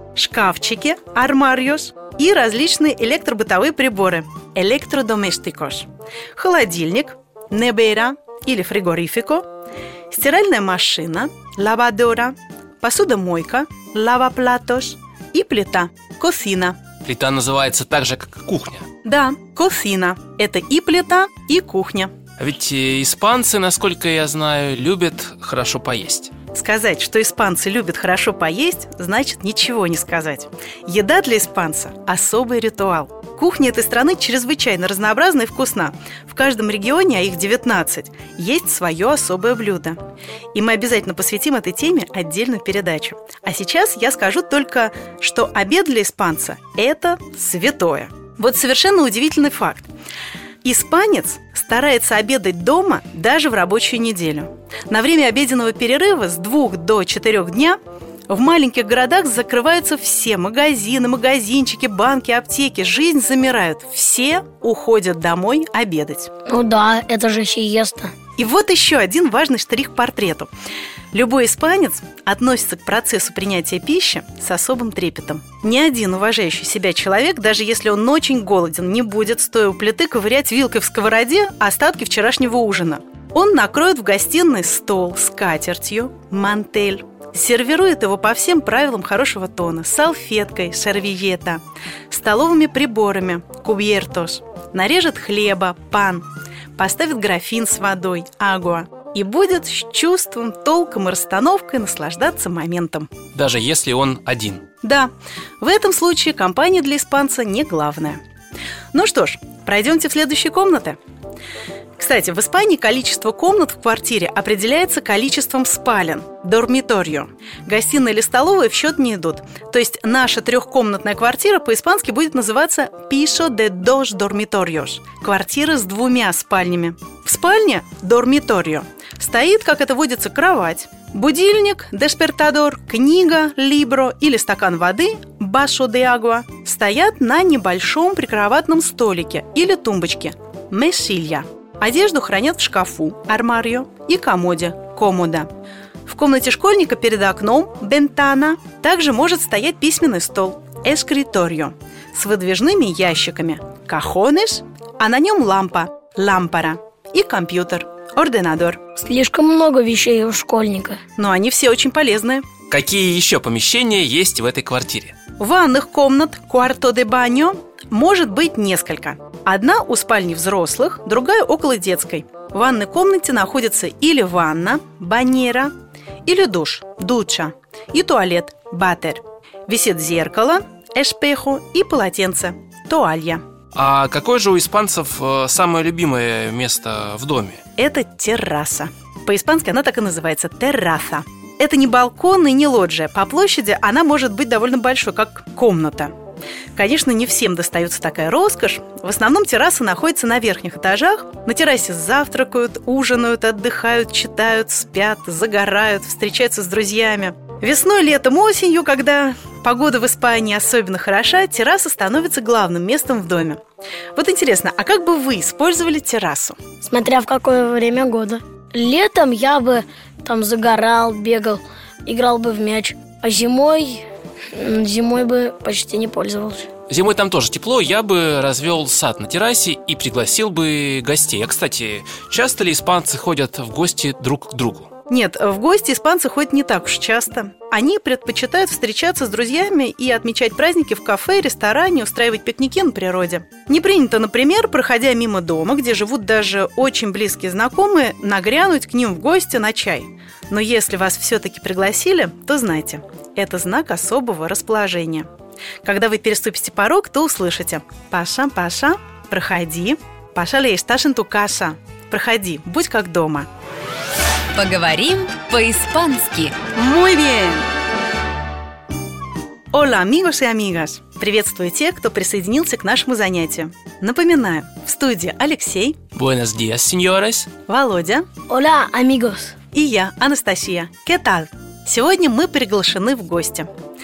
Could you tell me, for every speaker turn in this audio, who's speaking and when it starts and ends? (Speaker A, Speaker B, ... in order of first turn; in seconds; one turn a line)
Speaker A: 0.1-9.5
Speaker A: 10.1-16.8
Speaker B: 17.0-18.9
Speaker A: 19.0-22.1
Speaker B: 22.4-26.3
Speaker A: 26.5-40.0
Speaker A: 40.5-49.9
Speaker A: 50.6-57.8
Speaker A: 58.3-66.3
Speaker C: 66.5-68.1
Speaker A: 68.4-70.5
Speaker A: 71.1-103.1
Speaker B: 103.3-104.7
Speaker A: 104.8-108.2
Speaker A: 108.9-111.0
Speaker A: 112.0-145.5
Speaker A: 146.1-158.8
Speaker C: 159.0-161.0
Speaker A: 161.2-162.5
Speaker B: 162.7-165.2
Speaker A: 165.4-175.7
Speaker A: 176.2-183.4
Speaker B: 183.7-187.6
Speaker A: 187.8-196.1
Speaker A: 196.8-213.6
Speaker A: 214.2-216.6
Speaker C: 216.8-226.7
Speaker B: 226.9-234.9
Speaker A: 235.1-255.3
Speaker A: 255.8-263.5
Speaker D: 264.6-266.6
Speaker A: 266.8-267.7
Speaker A: 269.7-276.0
Speaker B: 276.1-277.5
Speaker A: 277.7-278.3
Speaker C: 278.5-279.6
Speaker A: 279.7-283.7